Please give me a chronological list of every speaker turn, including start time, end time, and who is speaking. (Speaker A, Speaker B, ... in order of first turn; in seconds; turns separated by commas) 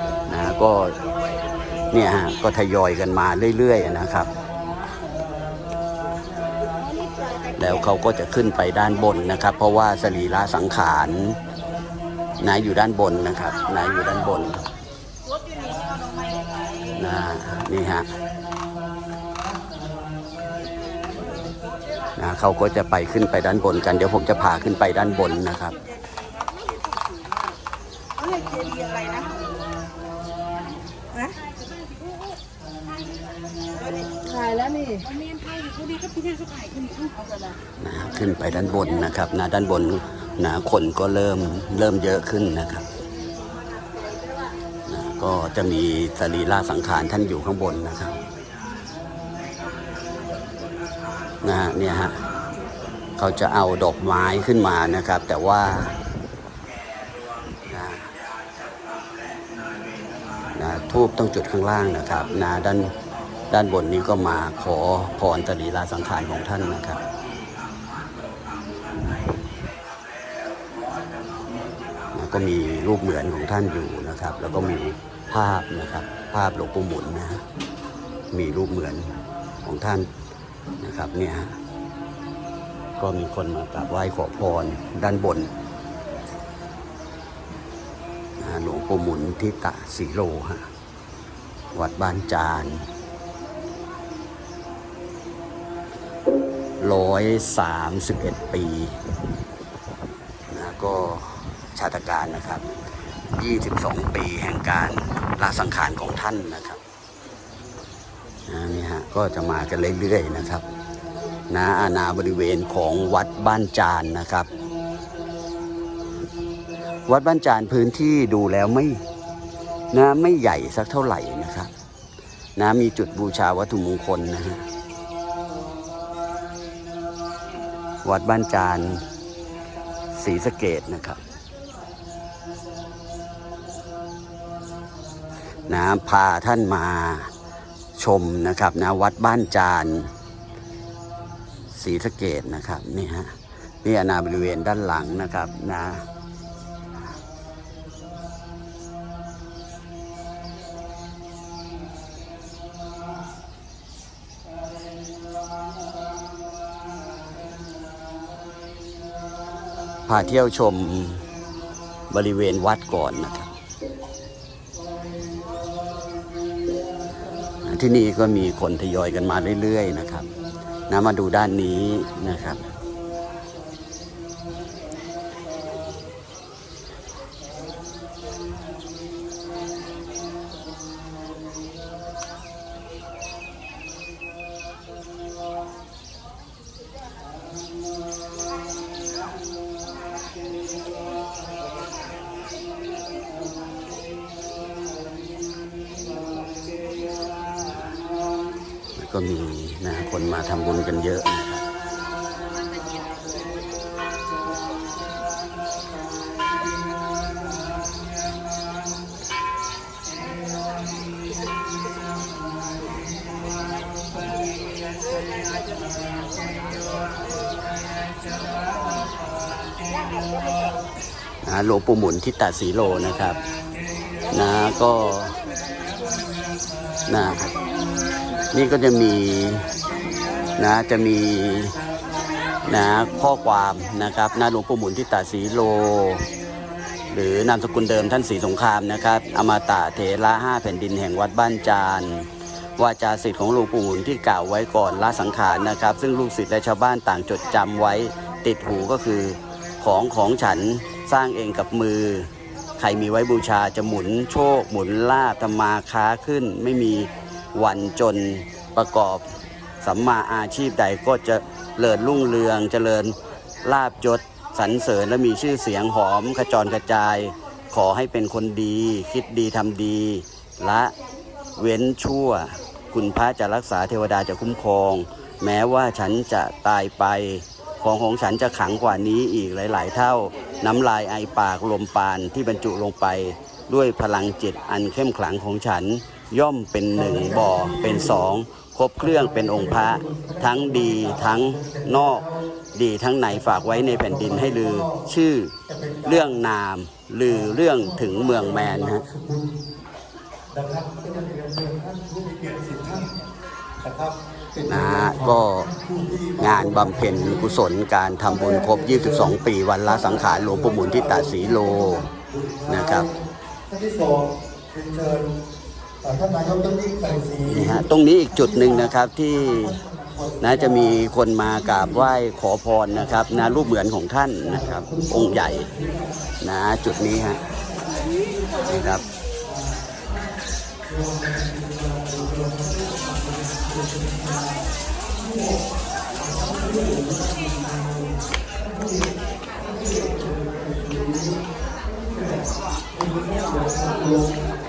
Speaker A: 0.3-1.0, Speaker A: 1.9-4.3, Speaker A: 7.5-11.4, Speaker A: 12.4-14.7, Speaker A: 16.9-18.1, Speaker A: 22.2-25.8, Speaker B: 26.2-27.4, Speaker B: 28.2-29.4, Speaker B: 31.2-32.2, Speaker B: 34.1-37.5, Speaker A: 37.8-42.9, Speaker B: 44.2-44.4, Speaker A: 44.9-48.2, Speaker A: 51.4-52.2, Speaker A: 53.2-56.0, Speaker A: 57.7-58.1, Speaker A: 60.5-62.9, Speaker A: 63.5-67.0, Speaker A: 72.1-77.4, Speaker A: 78.3-80.1, Speaker A: 80.8-81.6, Speaker A: 83.0-85.5, Speaker A: 88.4-90.7, Speaker A: 91.7-92.9, Speaker A: 96.8-99.0, Speaker A: 100.5-102.7, Speaker A: 103.4-106.8, Speaker A: 108.5-110.7, Speaker A: 111.5-114.5, Speaker A: 117.1-119.0, Speaker A: 119.9-121.7, Speaker A: 122.6-124.7, Speaker A: 128.0-129.1, Speaker A: 130.1-131.2, Speaker A: 135.7-137.3, Speaker A: 138.0-140.1, Speaker A: 141.7-146.1, Speaker A: 160.1-161.2, Speaker A: 162.1-163.5, Speaker A: 167.6-170.3, Speaker A: 170.9-172.6, Speaker A: 199.0-201.7, Speaker B: 215.2-215.8, Speaker B: 219.9-220.8, Speaker A: 221.4-223.4, Speaker A: 224.3-225.4, Speaker B: 225.6-226.3, Speaker A: 227.1-227.6, Speaker A: 228.5-229.8, Speaker A: 230.6-231.8, Speaker A: 232.6-236.3, Speaker A: 237.1-259.2, Speaker A: 259.8-270.9, Speaker A: 271.6-299.1, Speaker C: 290.1-290.4, Speaker C: 299.1-299.5, Speaker C: 300.5-303.1, Speaker C: 303.8-304.2, Speaker A: 304.6-305.8, Speaker C: 305.8-306.4, Speaker A: 306.4-312.1, Speaker C: 312.1-312.7, Speaker A: 312.7-313.1, Speaker C: 313.7-315.3, Speaker C: 316.0-317.4, Speaker A: 317.4-319.8, Speaker A: 320.4-325.7, Speaker A: 326.4-327.4, Speaker A: 328.6-329.0, Speaker C: 331.8-332.6, Speaker C: 336.3-337.9, Speaker C: 339.7-341.3, Speaker C: 342.9-344.3